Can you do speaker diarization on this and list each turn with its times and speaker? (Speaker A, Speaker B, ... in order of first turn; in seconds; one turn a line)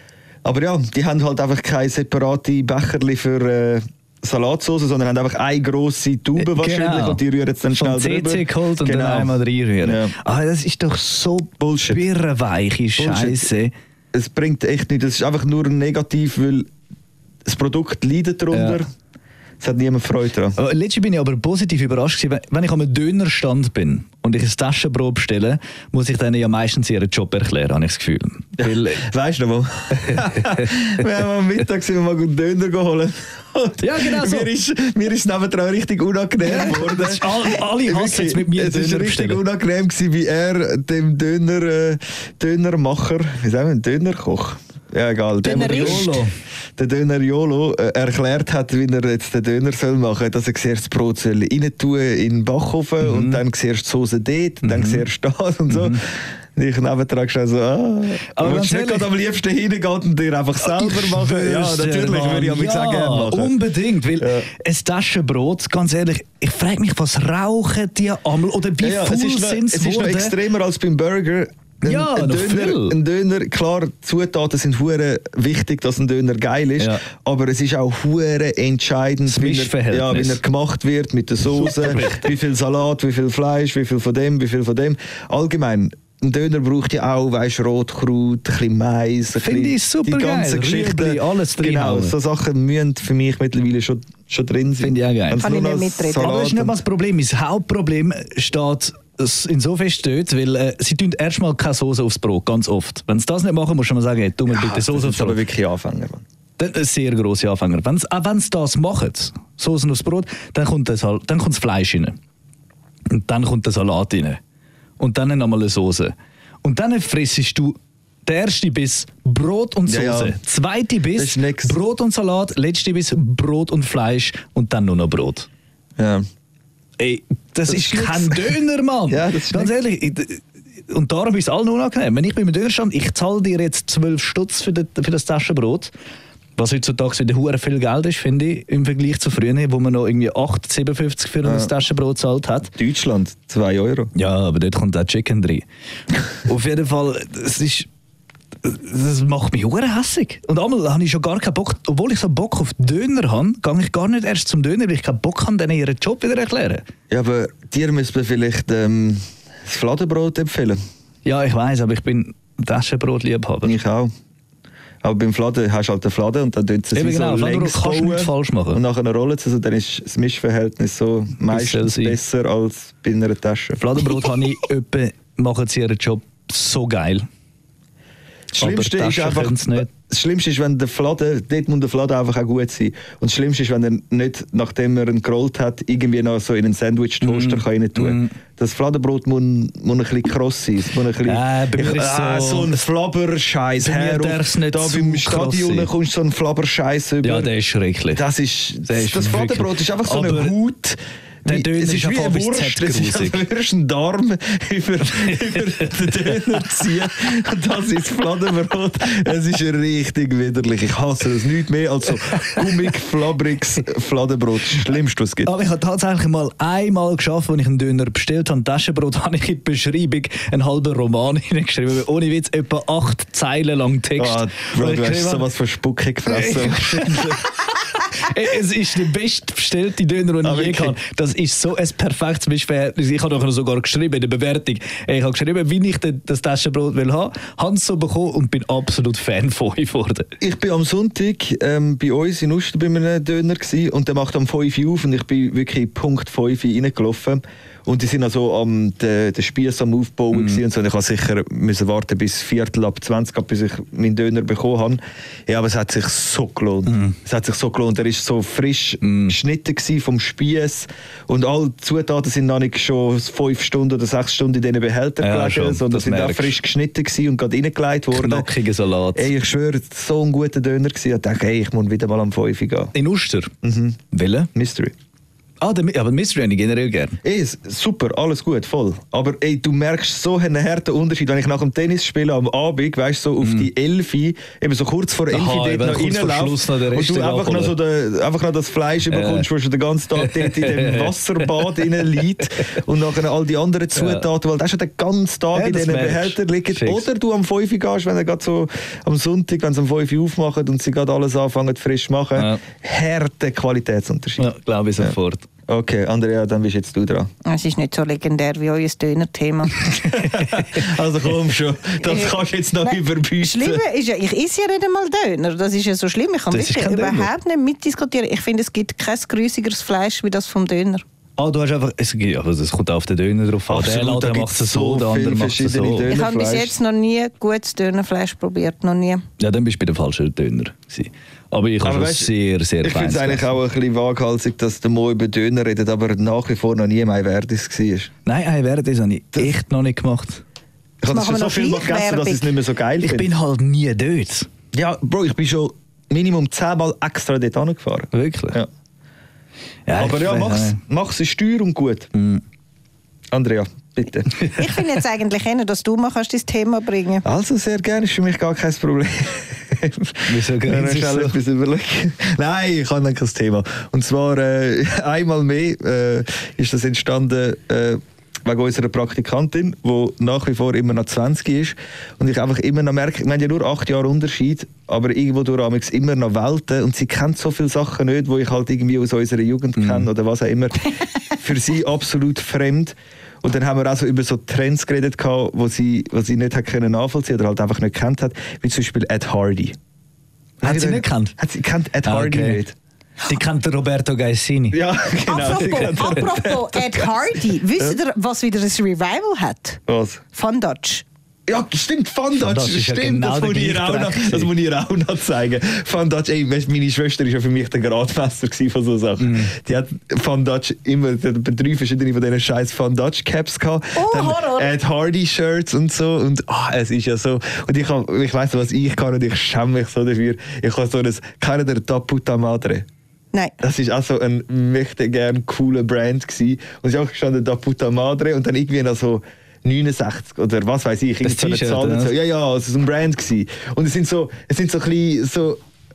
Speaker A: 0.4-10.2
Speaker B: 6.3-13.7
Speaker A: 11.6-12.0
Speaker A: 13.0-13.5
Speaker A: 14.1-16.7
Speaker A: 17.4-18.9
Speaker B: 18.5-18.8
Speaker A: 19.6-20.6
Speaker B: 20.5-29.0
Speaker A: 28.6-46.2
Speaker B: 30.0-30.7
Speaker B: 33.8-34.5
Speaker B: 36.4-39.4
Speaker B: 45.4-46.3
Speaker C: 45.4-46.1
Speaker A: 46.8-63.6
Speaker B: 53.0-53.4
Speaker B: 54.6-55.0
Speaker B: 55.7-56.0
Speaker B: 58.3-59.1
Speaker B: 60.6-70.4
Speaker A: 64.2-64.5
Speaker A: 68.8-96.8
Speaker B: 71.8-73.0
Speaker B: 76.8-77.0
Speaker B: 79.2-80.4
Speaker B: 81.5-82.3
Speaker B: 89.3-92.2
Speaker B: 94.8-95.4
Speaker C: 95.4-96.3
Speaker B: 96.1-105.4
Speaker A: 104.5-106.2
Speaker B: 106.6-112.2
Speaker B: 113.1-114.4
Speaker B: 115.0-125.5
Speaker A: 119.8-120.4
Speaker A: 121.1-121.8
Speaker A: 126.0-126.2
Speaker B: 127.0-135.9
Speaker A: 127.7-128.5
Speaker A: 129.1-129.7
Speaker B: 136.6-142.7
Speaker A: 141.4-141.7
Speaker A: 142.7-144.1
Speaker B: 144.1-145.6
Speaker B: 146.4-147.9
Speaker B: 148.6-156.8
Speaker A: 157.1-160.8
Speaker B: 161.2-163.8
Speaker A: 163.6-164.1
Speaker A: 165.0-173.8
Speaker B: 166.9-168.8
Speaker B: 171.4-172.2
Speaker B: 173.8-177.3
Speaker A: 178.5-197.5
Speaker B: 178.6-179.9
Speaker B: 187.2-188.3
Speaker B: 191.2-192.8
Speaker B: 193.8-195.9
Speaker B: 197.2-198.2
Speaker A: 198.1-215.5
Speaker B: 198.8-200.5
Speaker B: 201.4-203.4
Speaker B: 205.2-206.9
Speaker B: 215.4-225.5
Speaker A: 224.2-227.4
Speaker B: 226.2-240.3
Speaker A: 230.4-231.0
Speaker A: 240.4-268.5
Speaker B: 250.3-250.6
Speaker B: 256.9-257.1
Speaker B: 259.0-259.4
Speaker B: 265.2-266.6
Speaker B: 268.1-269.3
Speaker A: 269.1-272.9
Speaker B: 272.9-273.5
Speaker A: 273.6-274.0
Speaker B: 274.1-274.5
Speaker A: 274.5-274.9
Speaker B: 275.6-277.2
Speaker A: 277.2-305.2
Speaker B: 283.4-283.7
Speaker B: 285.3-287.7
Speaker B: 289.1-289.5
Speaker B: 290.1-291.8
Speaker B: 293.9-294.3
Speaker B: 295.5-297.1
Speaker B: 302.3-302.6
Speaker B: 304.4-305.4
Speaker A: 305.7-307.3
Speaker C: 307.4-309.9
Speaker A: 309.9-313.8
Speaker B: 310.0-310.9
Speaker C: 312.0-321.0
Speaker B: 316.5-317.3
Speaker B: 321.4-326.1
Speaker A: 323.7-326.7
Speaker C: 326.1-329.2
Speaker B: 329.4-333.5
Speaker A: 331.8-338.1
Speaker B: 338.2-340.4
Speaker A: 341.0-343.3
Speaker C: 341.1-342.5
Speaker B: 343.0-344.5
Speaker A: 344.7-348.7
Speaker B: 348.1-348.6
Speaker B: 349.9-350.8
Speaker A: 349.9-352.1
Speaker B: 352.1-352.4
Speaker A: 353.3-354.4
Speaker B: 354.4-354.9
Speaker C: 354.5-357.2
Speaker A: 357.2-389.8
Speaker B: 360.3-361.4
Speaker B: 379.8-380.1
Speaker B: 390.6-391.3
Speaker A: 390.6-392.8
Speaker B: 392.0-392.6
Speaker B: 393.2-394.8
Speaker A: 394.7-397.0
Speaker C: 395.2-401.0
Speaker B: 395.5-396.4
Speaker A: 399.9-400.2
Speaker A: 401.5-422.8
Speaker B: 402.3-404.5
Speaker B: 409.2-409.5
Speaker C: 413.9-414.7
Speaker A: 423.6-435.6
Speaker B: 431.2-432.1